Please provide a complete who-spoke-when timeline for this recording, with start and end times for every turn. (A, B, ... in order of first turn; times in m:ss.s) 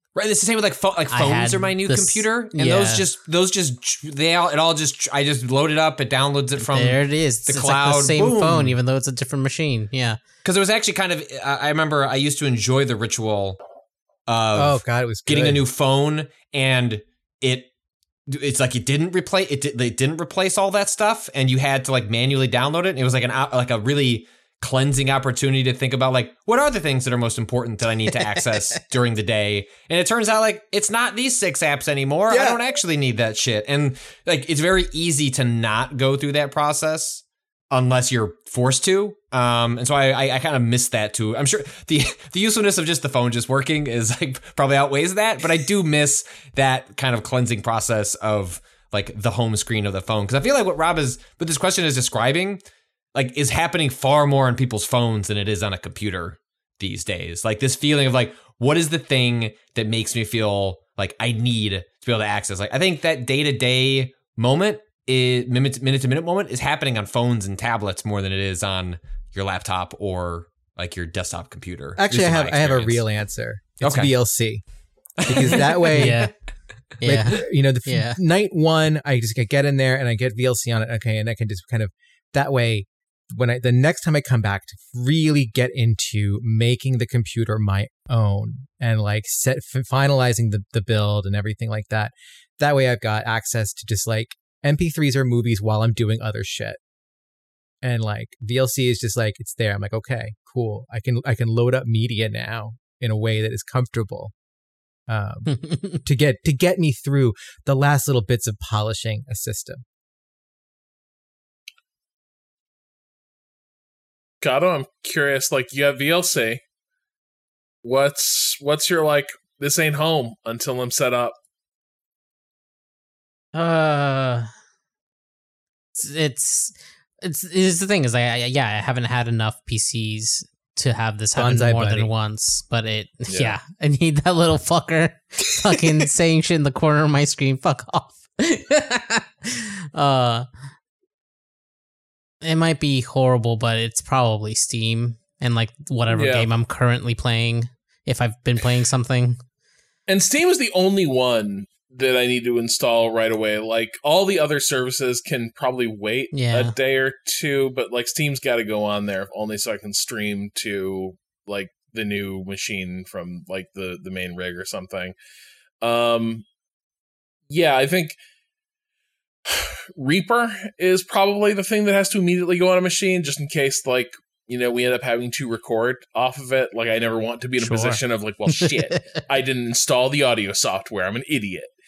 0:00.2-0:08.8 A
0:01.1-0:03.1 B
0:06.6-0:10.2 B
0:10.4-0:13.6 A
0:14.3-0:17.7 A
0:14.6-0:15.6 C
0:18.3-0:52.6 A
0:32.3-0:32.6 C
0:53.1-1:13.0 A
1:12.0-1:14.6 C
1:13.8-1:14.1 A
1:15.2-1:16.0 A
1:15.2-1:16.3 C
1:15.9-1:16.3 B
1:17.0-1:18.2 B
1:17.0-1:36.8 C
1:37.8-1:44.3 C
1:45.1-1:49.8 C
1:54.4-1:56.6 D
1:57.8-2:01.4 D
2:03.5-2:04.5 B
2:06.0-2:20.5 B
2:11.4-2:12.1 C
2:13.3-2:13.6 D
2:22.4-2:29.4 B
2:26.1-2:26.5 D
2:30.1-2:45.2 D
2:36.3-2:36.7 B
2:45.8-2:46.4 D
2:47.5-2:48.2 D
2:49.5-3:01.7 D
2:57.6-2:59.2 B